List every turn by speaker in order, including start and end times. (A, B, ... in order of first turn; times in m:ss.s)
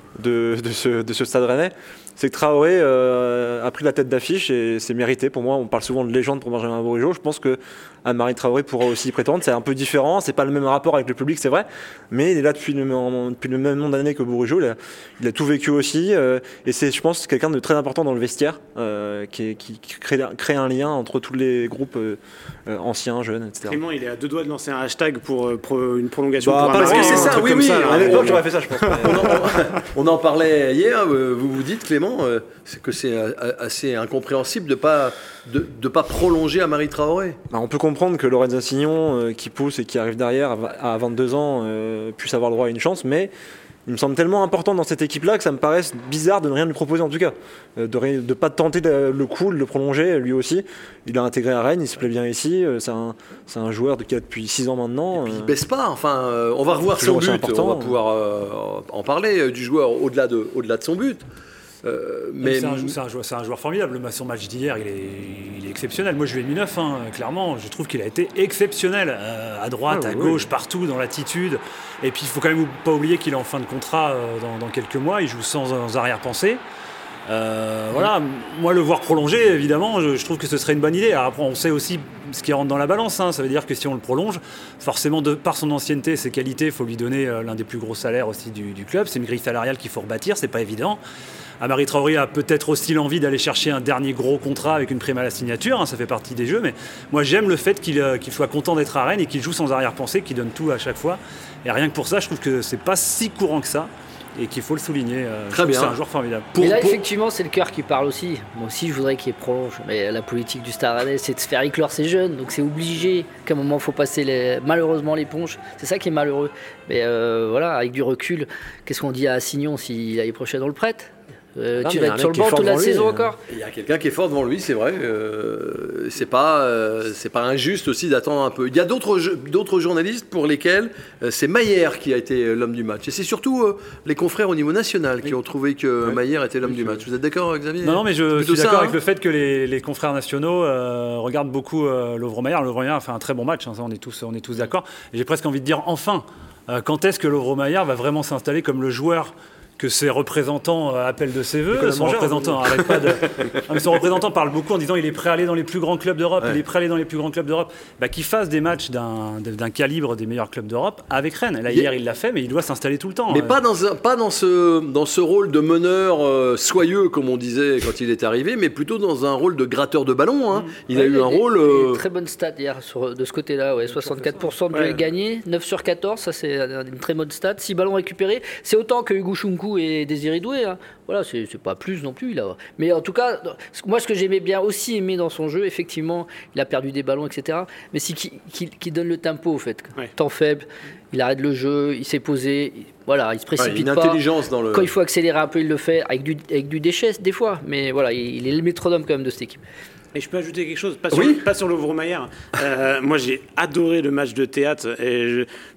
0:00.2-0:23.8 A
0:23.6-0:29.1 B
0:26.4-0:29.6 A
0:26.7-0:28.4 C
0:29.0-0:37.4 C
0:37.5-0:43.3 A
0:43.8-0:55.5 A
0:55.2-1:01.2 C
0:57.0-0:58.0 A
1:01.8-1:03.0 C
1:02.4-1:16.6 D
1:09.9-1:10.4 A
1:17.3-1:31.0 D
1:31.6-1:46.5 D
1:45.5-1:46.0 C
1:46.5-1:47.0 C
1:46.6-2:03.4 E
2:01.8-2:03.3 A
2:03.5-2:19.0 C
2:16.7-2:17.0 D
2:17.8-2:43.6 D
2:31.7-2:32.9 A
2:43.3-2:52.0 C
2:50.9-3:14.2 E
2:54.0-2:54.5 D
2:54.7-2:55.0 B
3:13.6-3:14.9 C
3:14.7-3:19.6 E
3:20.1-3:25.5 B
3:21.1-3:21.4 C